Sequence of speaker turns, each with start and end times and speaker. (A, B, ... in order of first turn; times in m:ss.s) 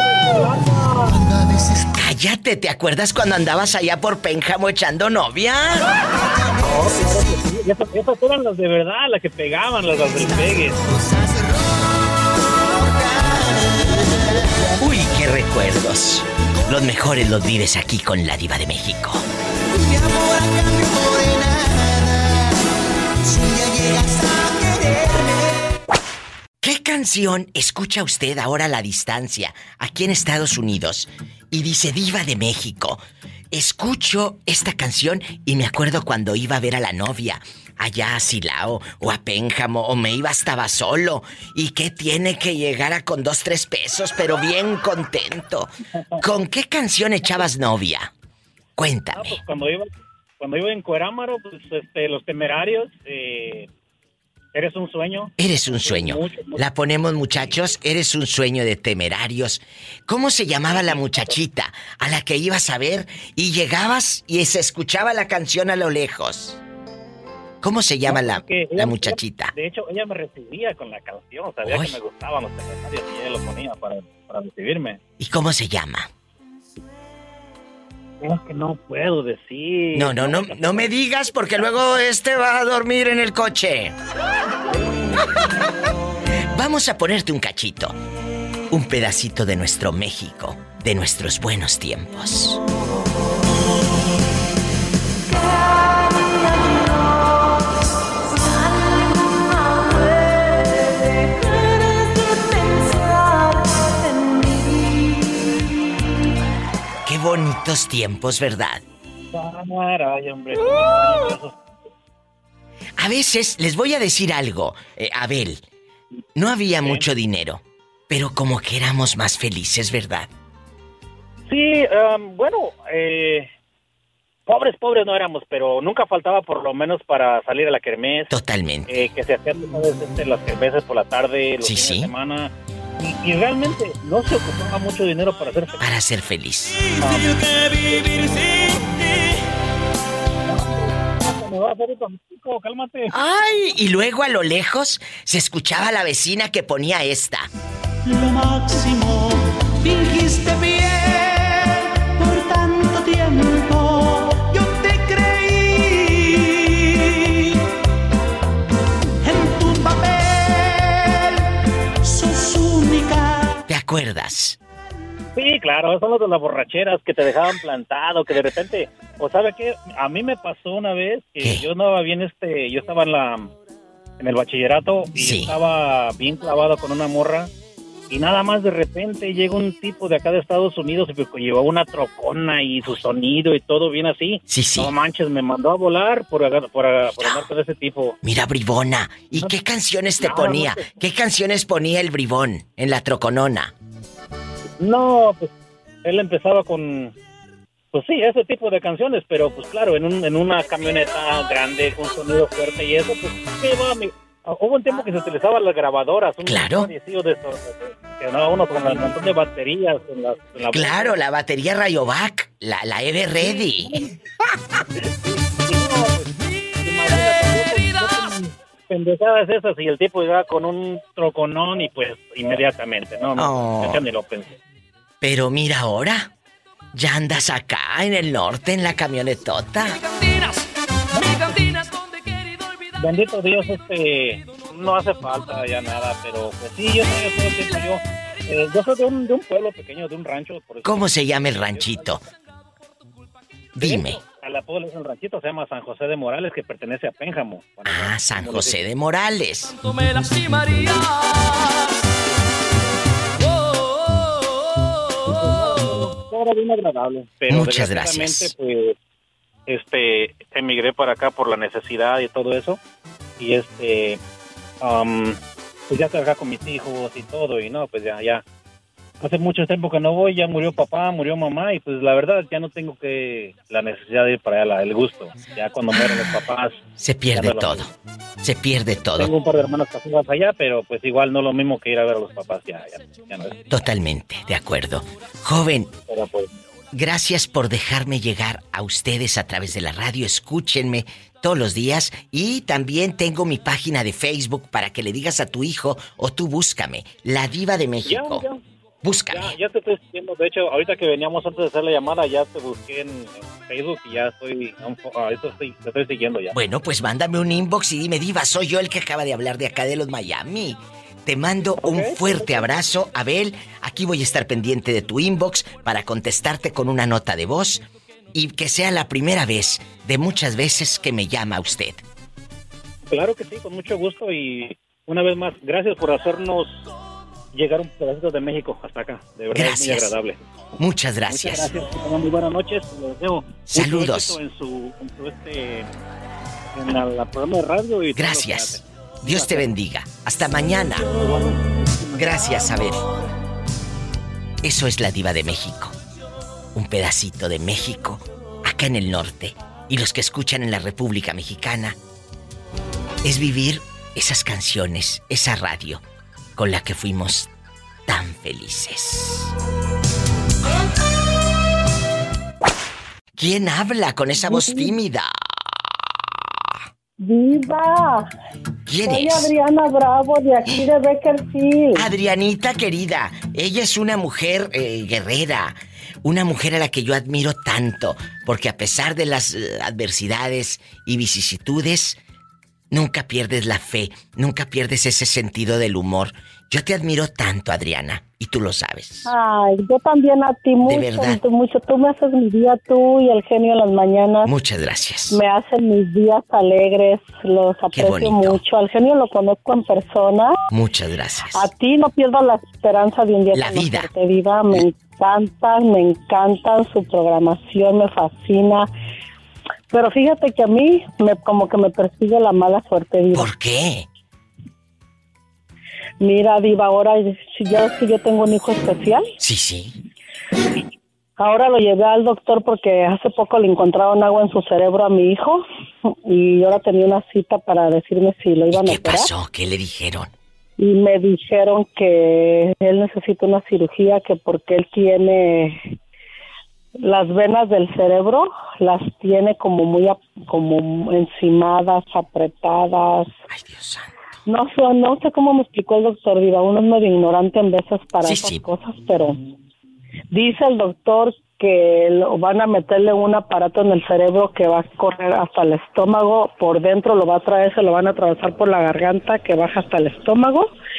0:01.9-0:05.9 A
0:06.6-0:10.8 B
0:14.8-0:19.2 A
0:26.6-0:48.1 A
0:48.8-0:49.4 A
0:49.1-0:49.9 B
0:50.4-0:53.7 B
0:54.5-0:56.6 B
0:55.4-1:06.6 A
1:00.6-1:01.4 B
1:07.6-1:09.5 A
1:08.0-1:15.0 B
1:11.6-1:12.0 A
1:15.2-1:16.1 A
1:18.2-1:20.9 B
1:19.9-1:24.0 A
1:26.5-1:28.0 A
1:28.7-1:32.6 A
1:47.0-1:48.8 A
1:49.3-1:51.6 B
1:53.0-1:55.6 A
1:56.4-2:00.3 A
1:56.8-1:57.1 B
2:01.5-2:03.5 B
2:04.5-2:08.3 B
2:08.3-2:08.9 A
2:08.9-2:15.8 B
2:11.6-2:12.1 A
2:15.8-2:16.9 A
2:17.0-2:18.9 B
2:20.5-2:23.1 B
2:23.1-2:27.5 A
2:28.1-2:29.3 C
2:29.8-2:31.4 C
2:32.2-2:35.9 C
2:39.3-2:40.8 C
2:42.1-2:43.1 C
2:43.7-2:44.6 A
2:45.4-2:53.5 B
2:51.4-2:51.7 A
2:54.2-2:57.5 B
2:55.2-2:55.5 A
2:58.1-3:08.2 B
3:04.5-3:04.9 A
3:07.2-3:07.5 A
3:08.2-3:13.7 A
3:10.2-3:10.9 B
3:14.8-3:15.5 B
3:16.0-3:17.1 B
3:17.9-3:31.2 B
3:26.4-3:26.9 A
3:30.7-3:34.0 A
3:33.4-3:34.0 B
3:35.3-3:36.3 B
3:36.8-3:44.6 B
3:43.4-3:44.0 A
3:45.2-3:46.3 A
3:46.9-3:50.0 A
3:51.2-3:51.6 B
3:53.0-4:02.2 B
4:00.8-4:02.2 A
4:03.8-4:04.2 A
4:03.8-4:08.8 B
4:07.9-4:09.7 A
4:15.4-4:19.0 B
4:17.5-4:18.5 A
4:19.7-4:22.8 B
4:23.4-4:24.2 B
4:24.8-4:28.4 B
4:29.2-4:37.9 B
4:37.0-4:37.9 A
4:38.4-4:39.3 A
4:39.2-4:43.6 B
4:43.7-4:45.9 A
4:46.1-4:46.5 B
4:46.9-4:58.4 A
4:58.0-4:58.6 B
4:59.0-4:59.5 A
4:59.3-5:06.6 B
5:06.5-5:22.0 A
5:11.8-5:12.7 B
5:23.1-5:26.8 B
5:27.5-5:30.4 B
5:29.5-5:30.1 A
5:30.8-5:31.7 A
5:31.3-5:35.9 B
5:33.7-5:34.4 A
5:36.8-5:39.7 B
5:38.2-5:41.2 A
5:41.2-5:41.6 B
5:42.1-5:43.1 A
5:44.6-5:46.0 A
5:46.8-5:52.0 A
5:53.2-5:56.0 A
5:56.6-5:57.5 A
5:58.1-5:59.5 A
6:03.4-6:05.9 A
6:04.4-6:05.0 D
6:07.2-6:08.3 D
6:08.9-6:09.5 A
6:09.0-6:12.1 D
6:12.0-6:22.2 A
6:22.9-6:29.3 A
6:29.2-6:34.5 D
6:30.9-6:31.4 A
6:34.4-6:35.4 A
6:35.3-6:40.5 D
6:38.0-6:38.6 A
6:40.7-6:41.6 A
6:41.6-6:48.9 D
6:43.5-6:44.1 A
6:49.9-6:53.5 D
6:53.3-6:54.1 A
6:56.2-6:59.3 D
6:59.4-7:00.0 A
7:01.4-7:05.6 D
7:06.3-7:09.3 D
7:08.7-7:10.3 A
7:10.8-7:15.8 D
7:17.0-7:23.3 D
7:23.5-7:24.2 A
7:24.5-7:29.4 D
7:28.3-7:28.6 A
7:30.3-7:40.7 D